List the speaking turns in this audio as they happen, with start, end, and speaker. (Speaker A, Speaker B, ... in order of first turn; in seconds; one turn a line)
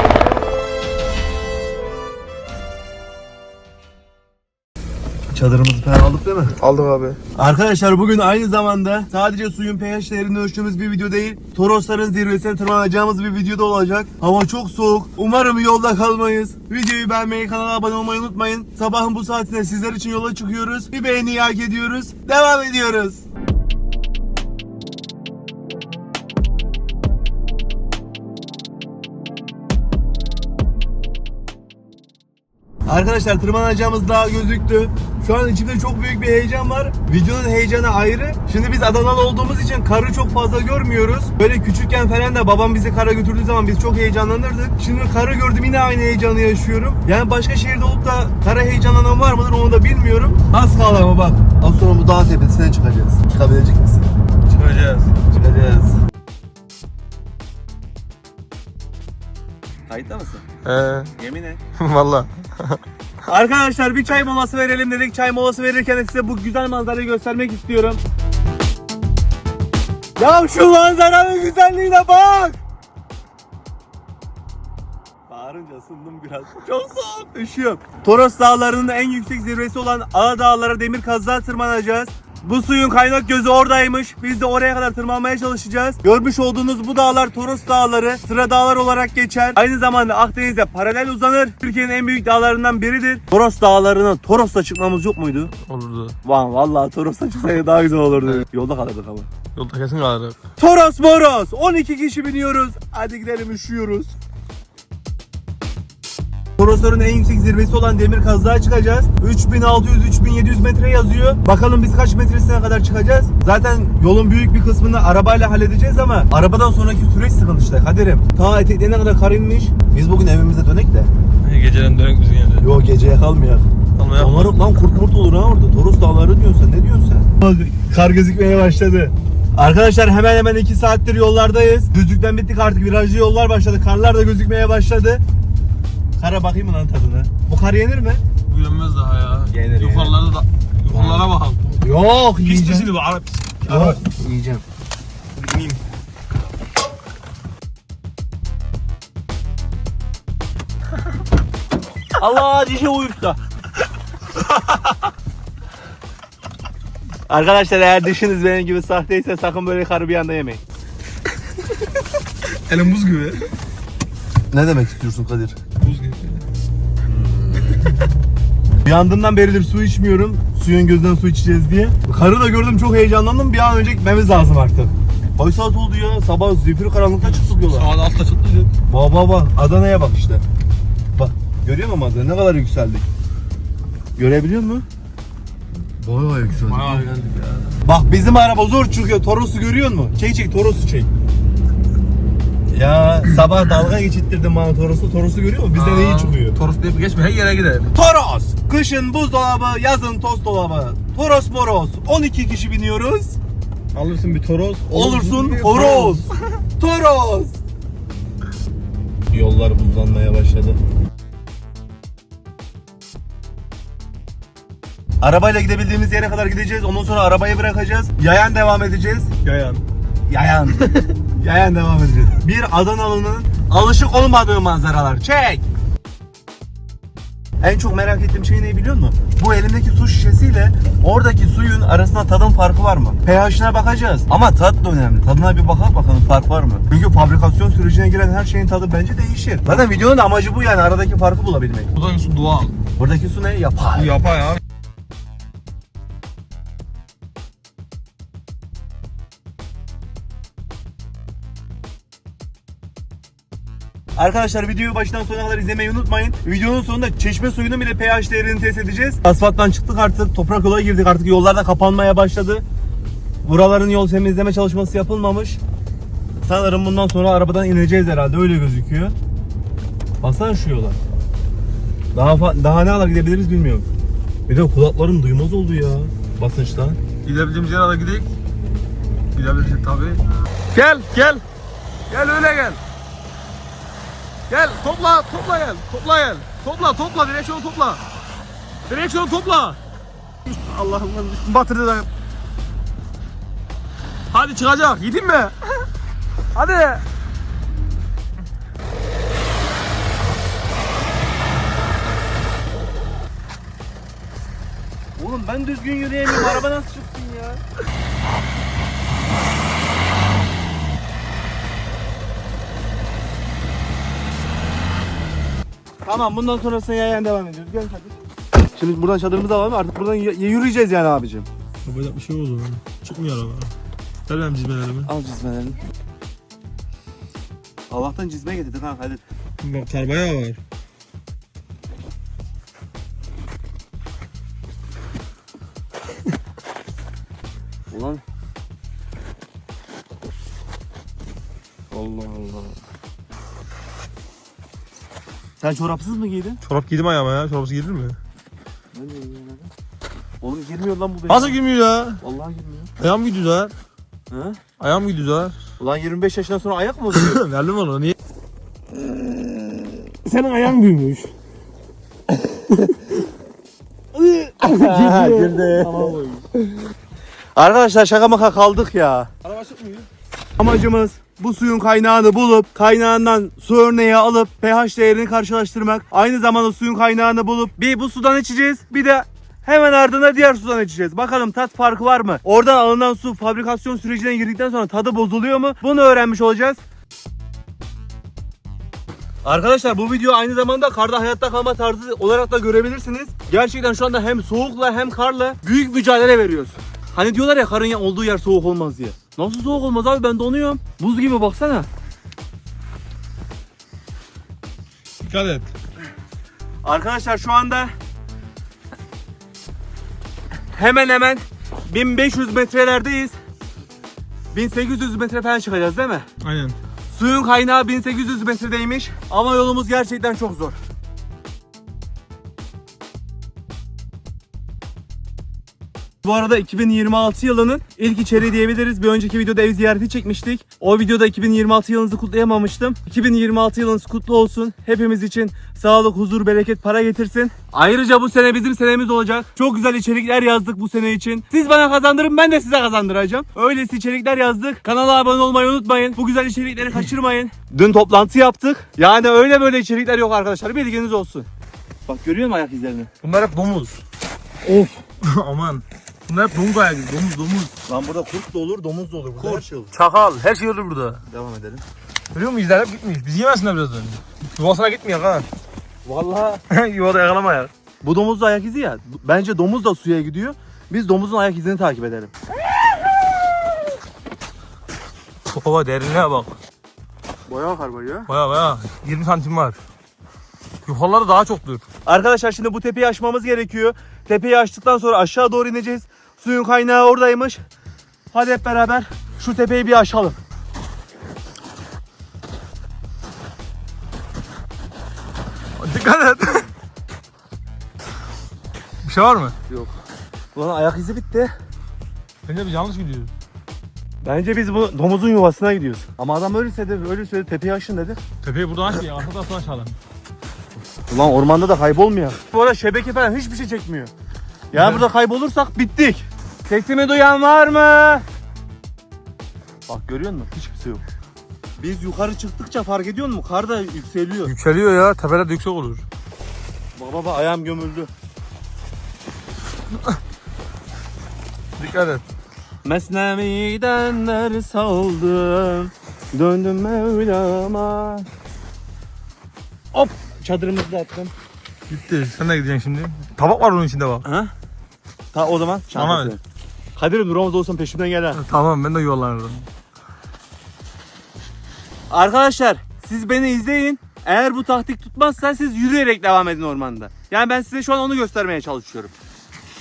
Speaker A: 5.3-6.5
Speaker B: 6.6-7.2
Speaker A: 7.3-23.2
Speaker A: 32.9-54.1
Speaker B: 54.5-55.1
Speaker A: 55.3-56.0
Speaker A: 59.9-60.4
Speaker B: 60.6-61.1
Speaker A: 61.2-61.6
Speaker B: 61.8-62.8
Speaker A: 63.3-68.0
Speaker A: 70.2-72.6
Speaker A: 75.3-95.5
Speaker B: 95.6-96.2
Speaker A: 96.2-99.3
Speaker B: 99.5-100.4
Speaker A: 100.6-104.1
Speaker A: 106.6-121.1
Speaker B: 121.4-122.7
Speaker A: 122.6-135.2
Speaker B: 124.0-124.6
Speaker A: 136.2-138.2
Speaker B: 138.5-141.8
Speaker A: 139.5-140.2
Speaker A: 140.9-142.9
Speaker B: 142.4-144.1
Speaker A: 143.7-144.6
Speaker B: 145.3-145.8
Speaker A: 152.2-153.4
Speaker A: 157.3-160.6
Speaker B: 162.5-163.5
Speaker A: 164.5-165.6
Speaker B: 165.8-166.4
Speaker A: 167.1-167.8
Speaker A: 168.8-177.9
Speaker B: 177.2-178.7
Speaker A: 178.9-180.4
Speaker A: 181.1-183.1
Speaker A: 184.2-184.8
Speaker A: 186.0-187.0
Speaker B: 186.5-187.8
Speaker A: 187.8-191.1
Speaker A: 192.7-196.6
Speaker B: 195.7-197.9
Speaker A: 197.9-203.4
Speaker B: 203.9-206.4
Speaker A: 204.9-207.6
Speaker A: 209.3-210.8
Speaker A: 215.2-219.3
Speaker B: 219.4-219.8
Speaker A: 220.3-225.6
Speaker A: 227.6-241.9
Speaker B: 241.9-242.8
Speaker A: 243.0-244.2
Speaker B: 243.9-244.6
Speaker A: 254.2-262.6
Speaker A: 263.4-265.6
Speaker A: 266.4-269.1
Speaker A: 270.2-271.0
Speaker A: 272.1-273.9
Speaker A: 274.5-277.0
Speaker B: 277.2-278.3
Speaker B: 279.3-280.2
Speaker B: 280.7-281.4
Speaker B: 282.1-282.8
Speaker B: 284.5-288.0
Speaker B: 288.9-289.8
Speaker B: 290.4-292.1
Speaker B: 294.3-295.8
Speaker B: 296.5-297.0
Speaker A: 305.2-307.6
Speaker A: 316.0-318.2
Speaker A: 318.7-321.5
Speaker B: 321.8-323.7
Speaker B: 324.3-325.1
Speaker A: 325.1-325.8
Speaker A: 327.9-329.2
Speaker B: 329.6-330.6
Speaker A: 337.9-338.2
Speaker A: 341.9-342.7
Speaker A: 345.6-346.6
Speaker B: 346.6-348.2
Speaker A: 348.9-349.7
Speaker A: 350.4-351.6
Speaker B: 351.3-352.2
Speaker A: 352.2-352.9
Speaker B: 353.0-353.7
Speaker A: 354.3-354.6
Speaker B: 354.8-355.6
Speaker A: 355.8-357.4
Speaker B: 357.1-358.1
Speaker B: 360.1-361.3
Speaker B: 364.1-366.5
Speaker A: 364.6-366.1
Speaker A: 367.6-369.3
Speaker B: 369.4-370.1
Speaker A: 370.6-386.8
Speaker A: 389.4-401.9
Speaker B: 405.2-405.7
Speaker A: 406.8-407.9
Speaker A: 410.7-413.3
Speaker A: 414.5-416.2
Speaker B: 416.4-416.7
Speaker A: 417.1-420.8
Speaker A: 426.2-451.5
Speaker A: 452.1-453.1
Speaker B: 453.2-454.0
Speaker A: 454.7-454.9
Speaker B: 455.1-457.7
Speaker A: 457.9-459.9
Speaker B: 459.4-461.2
Speaker A: 461.3-461.8
Speaker B: 462.3-465.5
Speaker A: 466.0-466.6
Speaker B: 466.7-467.7
Speaker A: 468.0-472.3
Speaker B: 475.4-476.5
Speaker A: 477.5-478.3
Speaker B: 478.3-479.8
Speaker B: 480.9-481.8
Speaker A: 482.1-487.6
Speaker A: 488.3-490.4
Speaker B: 495.8-496.7
Speaker B: 499.0-499.6
Speaker A: 500.5-501.5
Speaker B: 502.4-503.3
Speaker A: 504.2-508.2
Speaker B: 508.4-509.9
Speaker A: 511.1-514.1
Speaker A: 514.7-518.2
Speaker B: 514.7-515.0
Speaker A: 519.9-521.0
Speaker A: 521.8-524.5
Speaker B: 524.4-526.0
Speaker A: 527.0-528.1
Speaker B: 531.8-532.2
Speaker A: 532.8-538.3
Speaker A: 539.9-541.3
Speaker B: 541.9-544.2
Speaker A: 544.2-544.5
Speaker A: 545.3-546.4
Speaker B: 545.9-546.4
Speaker A: 547.0-548.4
Speaker B: 548.3-549.7
Speaker A: 552.1-559.1